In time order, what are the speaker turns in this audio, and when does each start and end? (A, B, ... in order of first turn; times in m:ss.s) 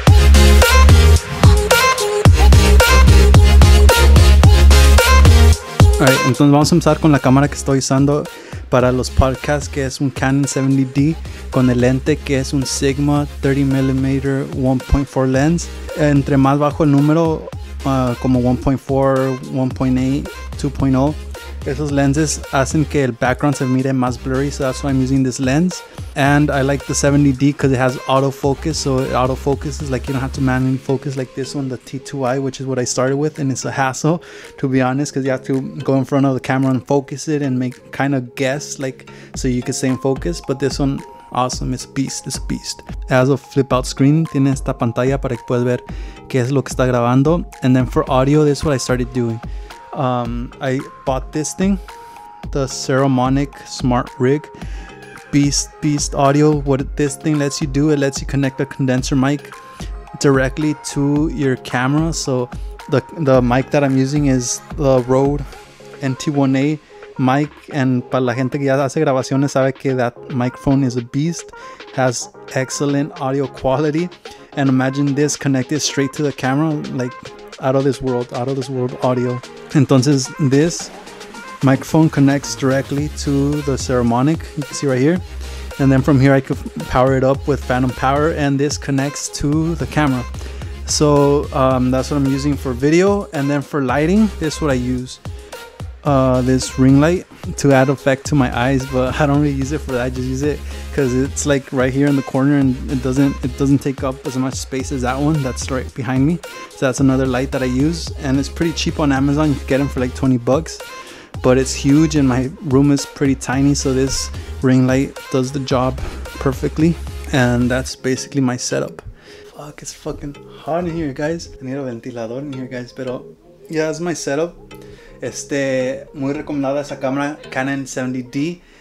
0:06.0-0:51.8 A
0:52.5-0:54.5 A
0:55.3-0:59.6 A
1:00.2-1:05.4 A
1:06.0-1:20.9 A
1:21.6-1:25.2 A
1:25.8-1:30.3 A
1:30.8-1:35.2 A
1:36.0-1:50.8 A
1:51.4-2:04.6 A
2:05.2-2:08.6 A